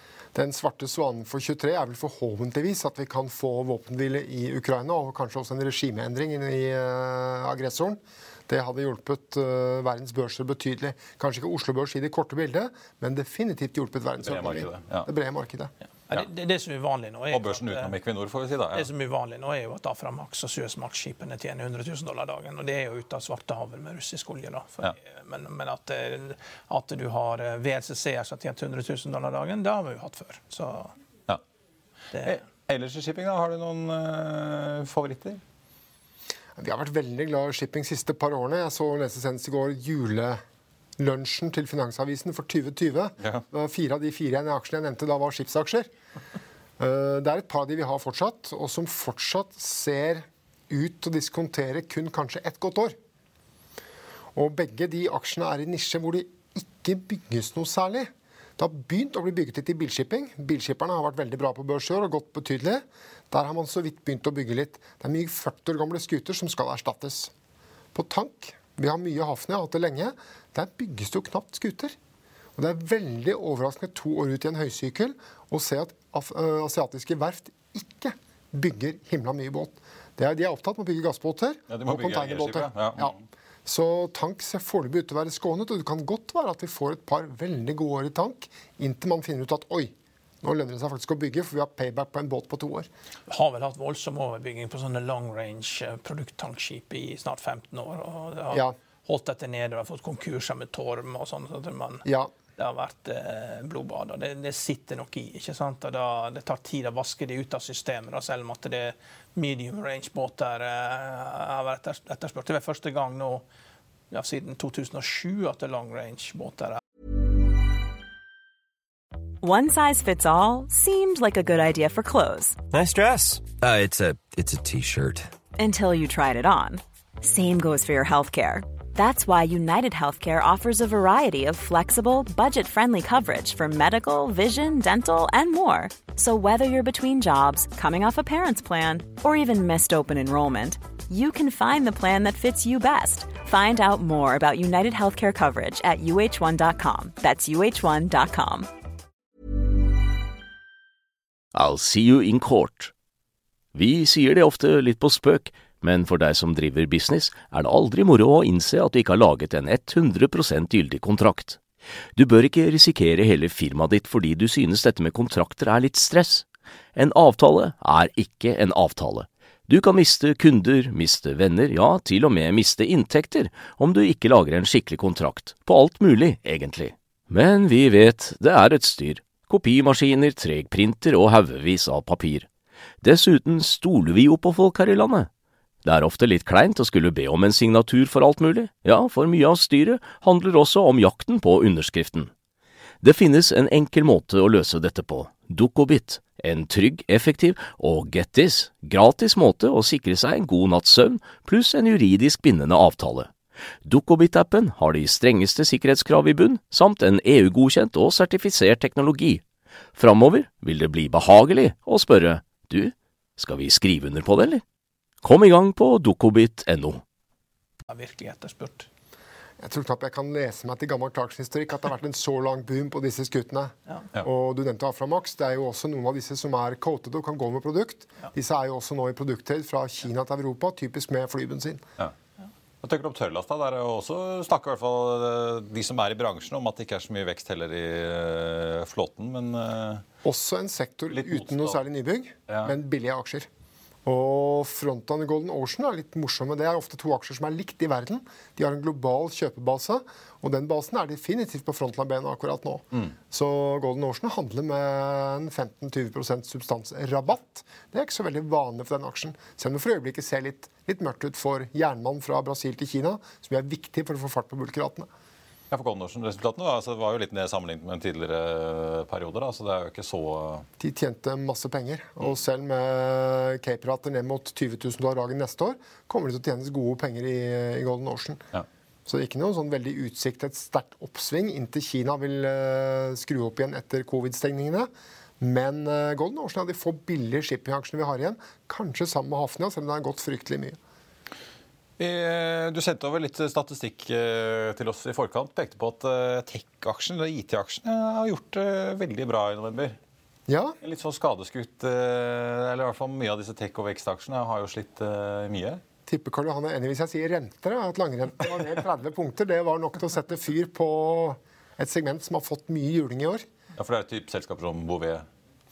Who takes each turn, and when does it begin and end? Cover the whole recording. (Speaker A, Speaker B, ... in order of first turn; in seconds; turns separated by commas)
Speaker A: 0.3-15.7, Speaker B: 14.2-15.1, Speaker C: 16.1-17.9, Speaker B: 17.3-18.9, Speaker C: 18.7-30.9, Speaker B: 32.2-35.4, Speaker A: 36.5-40.4, Speaker A: 41.0-45.9, Speaker A: 46.8-52.9, Speaker A: 54.3-67.3, Speaker A: 67.9-72.0, Speaker A: 72.5-92.9, Speaker B: 81.7-83.1, Speaker C: 93.3-102.0, Speaker A: 102.0-102.3, Speaker C: 102.6-113.4, Speaker C: 114.1-116.8, Speaker D: 119.4-122.6, Speaker E: 122.7-125.3, Speaker D: 125.5-148.7, Speaker F: 151.5-152.9, Speaker F: 153.7-161.6, Speaker F: 162.2-182.5, Speaker F: 183.0-185.3, Speaker F: 185.8-192.3, Speaker F: 193.0-203.3, Speaker F: 203.8-209.4, Speaker F: 209.9-214.6, Speaker F: 215.2-217.0, Speaker C: 217.9-218.9, Speaker A: 219.6-231.8, Speaker B: 232.8-240.0, Speaker A: 240.2-243.5, Speaker B: 241.1-241.8, Speaker B: 242.5-242.7, Speaker A: 244.0-265.1, Speaker B: 265.7-270.6, Speaker A: 270.8-278.4, Speaker A: 279.1-290.8, Speaker B: 292.0-300.0, Speaker A: 300.5-300.8, Speaker B: 300.8-305.8, Speaker A: 306.1-313.4, Speaker B: 313.8-315.3